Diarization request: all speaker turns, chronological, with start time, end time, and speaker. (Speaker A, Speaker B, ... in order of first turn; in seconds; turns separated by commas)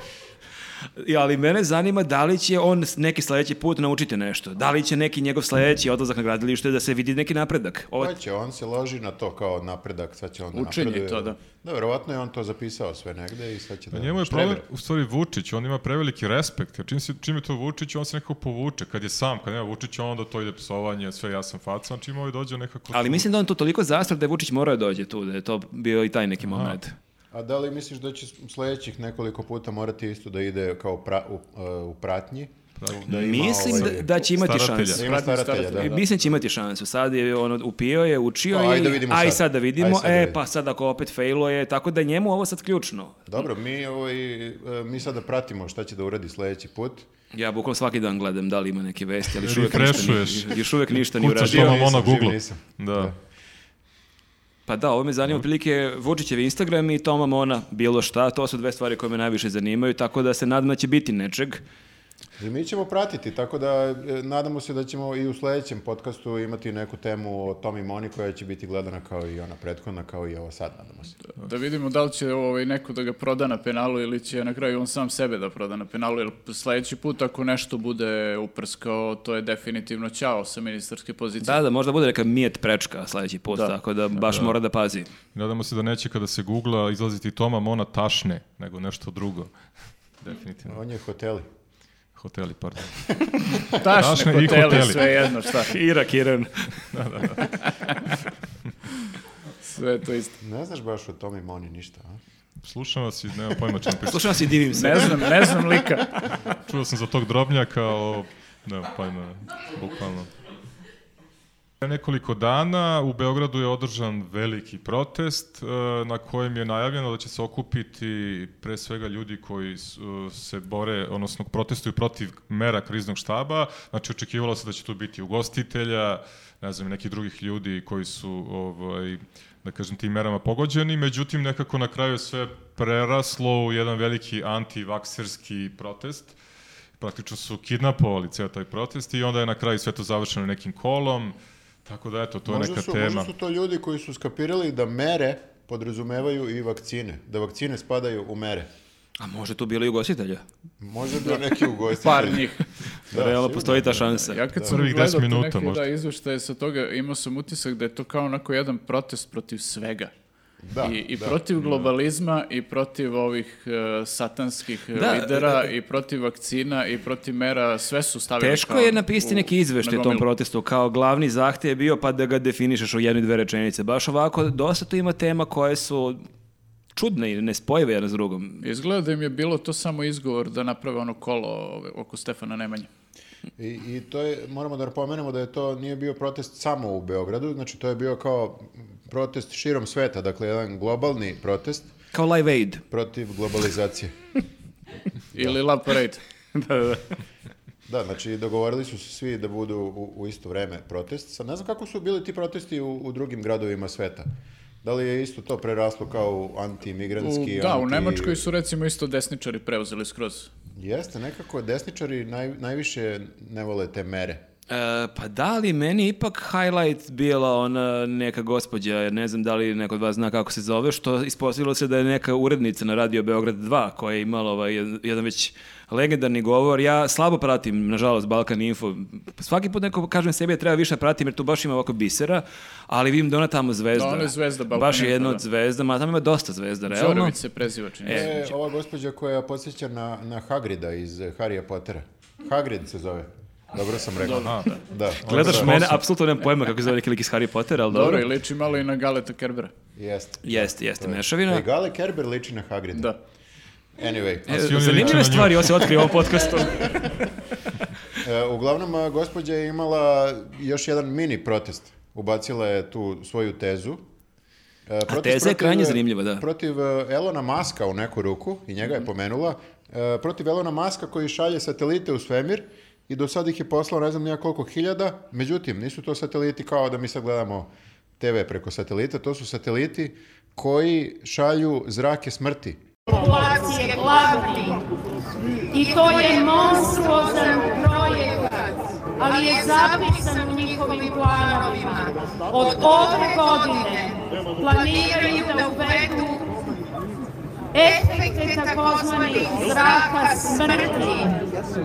Speaker A: 1.0-8.1, Speaker B: 8.0-14.6, Speaker C: 10.5-11.4, Speaker D: 13.9-23.3, Speaker A: 22.9-26.9, Speaker D: 26.4-26.8, Speaker B: 27.3-34.1, Speaker D: 32.8-35.0, Speaker A: 33.1-35.0, Speaker B: 34.9-36.0, Speaker C: 35.0-36.0, Speaker A: 35.7-43.2, Speaker B: 38.5-40.4, Speaker B: 43.3-47.1, Speaker A: 47.3-51.8, Speaker D: 49.4-53.1, Speaker B: 51.4-53.1, Speaker A: 54.7-61.6, Speaker B: 62.4-71.2, Speaker C: 71.4-81.6, Speaker A: 81.4-85.1, Speaker C: 83.5-83.7, Speaker D: 84.3-84.5, Speaker D: 85.3-89.5, Speaker D: 90.2-90.8, Speaker B: 90.7-91.5, Speaker D: 92.2-95.3, Speaker C: 93.8-95.7, Speaker A: 95.6-96.8, Speaker D: 96.9-97.5, Speaker C: 99.6-100.3, Speaker B: 100.4-102.2, Speaker D: 102.6-104.9, Speaker A: 104.1-105.3, Speaker C: 104.7-106.1, Speaker D: 106.5-110.3, Speaker D: 111.8-136.3, Speaker D: 137.0-143.3, Speaker B: 142.5-148.7, Speaker A: 149.2-150.4, Speaker B: 150.8-152.6, Speaker C: 152.0-152.6, Speaker B: 153.1-154.8, Speaker A: 153.1-154.4, Speaker C: 154.3-160.1, Speaker D: 154.7-155.8, Speaker B: 160.6-161.4, Speaker C: 160.8-170.2, Speaker D: 161.6-161.9, Speaker A: 164.9-165.7, Speaker A: 168.4-176.2, Speaker A: 176.9-178.6, Speaker C: 178.6-182.9, Speaker B: 183.6-191.9, Speaker A: 192.1-192.8, Speaker B: 192.9-194.1, Speaker C: 195.3-196.2, Speaker A: 196.5-197.0, Speaker B: 197.9-204.3, Speaker B: 204.8-208.4, Speaker C: 207.2-210.5, Speaker B: 210.8-214.4, Speaker A: 214.7-237.3, Speaker C: 233.9-235.4, Speaker C: 236.9-238.4, Speaker A: 238.1-238.3, Speaker B: 238.1-245.8, Speaker C: 244.2-244.8, Speaker D: 244.3-244.7, Speaker D: 245.2-246.0, Speaker A: 245.2-248.2, Speaker C: 247.9-249.7, Speaker B: 249.9-253.2, Speaker A: 250.4-251.6, Speaker B: 254.0-256.1, Speaker A: 254.5-257.1, Speaker D: 254.5-256.0, Speaker B: 258.2-264.1, Speaker B: 264.9-282.8, Speaker A: 265.1-266.4, Speaker E: 283.1-284.8, Speaker E: 285.7-296.5, Speaker E: 297.7-301.4